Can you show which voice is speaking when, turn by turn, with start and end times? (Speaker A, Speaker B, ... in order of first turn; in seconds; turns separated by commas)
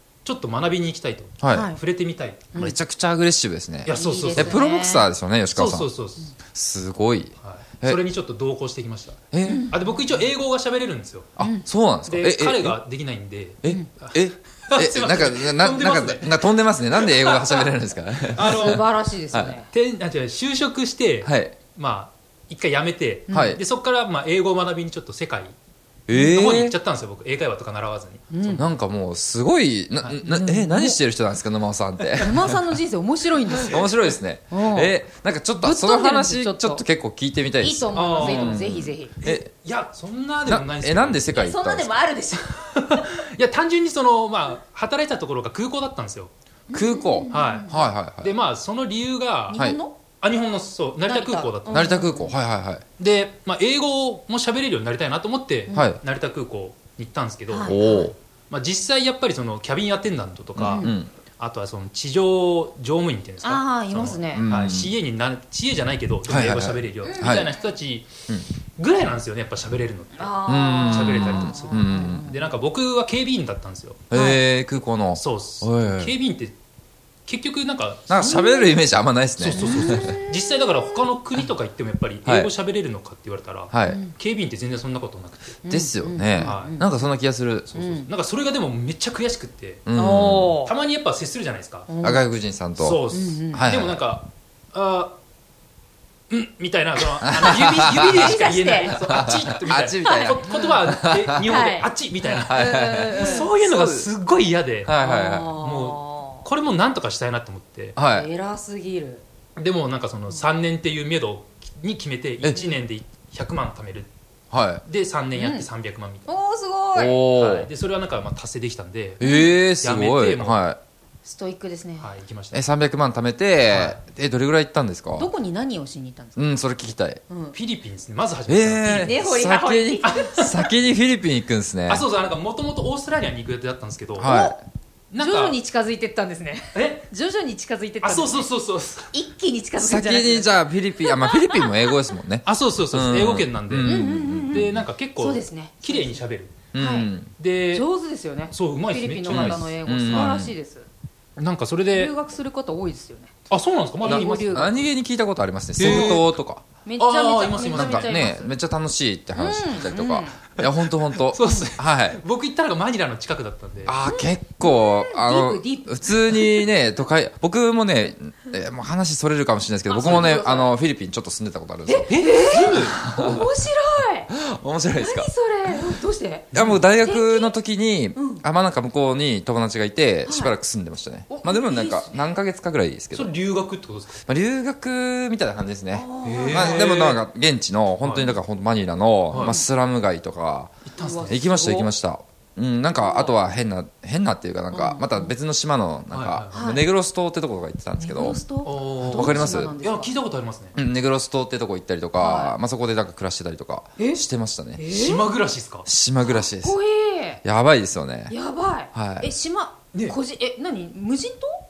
Speaker A: 0.2-2.5, Speaker B: 1.4-1.7, Speaker C: 1.5-1.8, Speaker B: 2.5-5.9, Speaker A: 3.9-4.6, Speaker C: 3.9-5.1, Speaker A: 5.5-6.3, Speaker B: 6.5-8.0, Speaker A: 7.4-11.3, Speaker B: 9.3-9.7, Speaker C: 9.5-9.8, Speaker B: 11.4-12.8, Speaker C: 11.4-11.7, Speaker A: 12.1-17.7, Speaker B: 13.6-19.6, Speaker A: 18.3-18.9, Speaker C: 18.5-19.7, Speaker A: 19.7-25.6, Speaker B: 21.2-21.6, Speaker C: 23.3-23.6, Speaker B: 23.3-23.6, Speaker B: 26.1-26.8, Speaker A: 26.1-28.7, Speaker C: 28.3-28.7, Speaker B: 28.6-32.6, Speaker A: 30.0-30.4, Speaker C: 30.3-31.0, Speaker C: 32.2-33.9, Speaker B: 33.6-39.5, Speaker C: 34.5-34.9, Speaker C: 35.6-36.8, Speaker C: 37.6-39.1, Speaker A: 37.9-38.6, Speaker A: 39.2-41.3, Speaker B: 40.5-42.0, Speaker C: 41.4-43.0, Speaker A: 42.5-46.3, Speaker C: 46.7-47.7, Speaker B: 46.7-48.3, Speaker A: 47.3-49.6, Speaker C: 49.5-50.0, Speaker B: 49.5-49.8, Speaker A: 50.2-52.0, Speaker C: 51.0-52.3, Speaker B: 51.7-52.8, Speaker A: 53.0-57.8, Speaker C: 55.7-55.9, Speaker B: 55.7-56.0, Speaker C: 57.5-58.1, Speaker B: 57.6-58.1, Speaker A: 58.5-68.1, Speaker B: 60.6-61.1, Speaker C: 60.7-61.0, Speaker C: 63.4-64.5, Speaker B: 64.3-65.0, Speaker B: 66.3-67.5, Speaker C: 67.0-67.6, Speaker A: 68.8-74.1, Speaker C: 70.2-72.5, Speaker B: 70.5-72.3, Speaker B: 74.1-76.1, Speaker C: 74.1-74.4, Speaker A: 75.1-76.5, Speaker A: 77.3-78.5, Speaker B: 78.1-80.2, Speaker C: 78.3-78.7, Speaker A: 79.4-85.6, Speaker C: 79.6-80.4, Speaker B: 82.2-82.5, Speaker B: 83.7-84.0, Speaker C: 83.9-84.2, Speaker C: 85.6-86.9, Speaker B: 85.7-88.0, Speaker A: 86.4-86.8, Speaker A: 87.7-89.9, Speaker C: 87.8-88.1, Speaker B: 89.9-90.6, Speaker C: 90.0-90.7, Speaker A: 90.6-91.9, Speaker C: 91.9-92.2, Speaker B: 92.0-94.0, Speaker A: 92.8-95.2, Speaker C: 93.1-93.7, Speaker A: 96.3-105.0, Speaker B: 97.2-98.4, Speaker C: 98.0-99.0, Speaker B: 98.9-101.5, Speaker C: 100.0-100.5, Speaker C: 101.4-101.9, Speaker B: 102.3-104.1, Speaker C: 102.5-103.5, Speaker B: 104.8-105.6, Speaker C: 105.0-106.5, Speaker A: 105.6-108.0, Speaker B: 108.0-108.3, Speaker C: 108.0-109.2, Speaker A: 109.6-114.1, Speaker B: 112.4-112.7, Speaker B: 114.5-114.8, Speaker A: 114.8-116.3, Speaker C: 115.3-115.7, Speaker C: 116.3-117.2, Speaker B: 116.9-117.7, Speaker A: 117.3-119.2, Speaker B: 119.2-120.8, Speaker C: 119.2-119.5, Speaker A: 119.8-120.6, Speaker C: 121.2-122.1, Speaker A: 122.0-122.6, Speaker B: 122.5-125.3, Speaker A: 123.7-124.0, Speaker C: 125.2-126.5, Speaker B: 126.4-127.2, Speaker C: 127.3-127.5, Speaker A: 127.5-129.3, Speaker B: 128.5-132.1, Speaker C: 128.9-130.3, Speaker A: 130.0-130.6, Speaker A: 131.9-134.3, Speaker B: 134.2-134.6, Speaker C: 134.2-134.6, Speaker A: 135.1-135.6, Speaker C: 135.2-138.5, Speaker A: 136.7-137.1, Speaker A: 138.0-139.1, Speaker C: 139.1-141.7, Speaker B: 139.8-144.8, Speaker A: 142.4-146.7, Speaker C: 143.8-146.2, Speaker B: 146.7-147.3, Speaker C: 146.8-147.1, Speaker A: 147.4-147.9, Speaker C: 147.7-150.9, Speaker A: 148.5-150.4, Speaker B: 149.3-150.5, Speaker A: 151.4-152.1, Speaker C: 151.9-153.3, Speaker A: 153.5-154.8, Speaker C: 154.0-154.8, Speaker B: 154.1-156.6, Speaker A: 155.8-156.3, Speaker C: 155.8-156.2, Speaker C: 156.8-158.5, Speaker A: 157.0-158.2, Speaker B: 157.6-162.2, Speaker C: 159.4-160.4, Speaker A: 160.6-164.0, Speaker B: 163.9-172.1, Speaker C: 164.1-166.7, Speaker C: 169.9-170.7, Speaker A: 170.0-170.3, Speaker C: 171.9-174.3, Speaker A: 172.1-173.0, Speaker B: 172.7-173.5, Speaker B: 174.3-175.3, Speaker C: 175.0-177.5, Speaker A: 176.5-176.8, Speaker B: 176.5-183.3, Speaker C: 178.2-178.4, Speaker C: 180.2-180.6, Speaker C: 181.3-182.4, Speaker A: 183.1-184.2, Speaker B: 184.3-190.7, Speaker C: 185.9-186.9, Speaker A: 186.2-187.3, Speaker A: 188.0-188.4, Speaker A: 189.3-189.6, Speaker C: 189.3-189.7, Speaker A: 190.8-191.4, Speaker C: 191.0-191.9, Speaker B: 191.3-198.4, Speaker C: 193.0-193.3, Speaker C: 194.7-195.3, Speaker A: 196.1-196.7, Speaker C: 196.5-196.9, Speaker C: 198.0-200.1, Speaker A: 198.6-200.8, Speaker B: 199.1-199.8, Speaker B: 200.8-204.8, Speaker C: 202.2-202.6, Speaker C: 204.0-204.2, Speaker C: 204.8-205.3, Speaker A: 204.9-205.9, Speaker B: 205.8-206.8, Speaker C: 206.2-207.4, Speaker B: 207.4-208.3, Speaker C: 208.3-211.6, Speaker B: 208.9-209.3, Speaker A: 209.9-210.2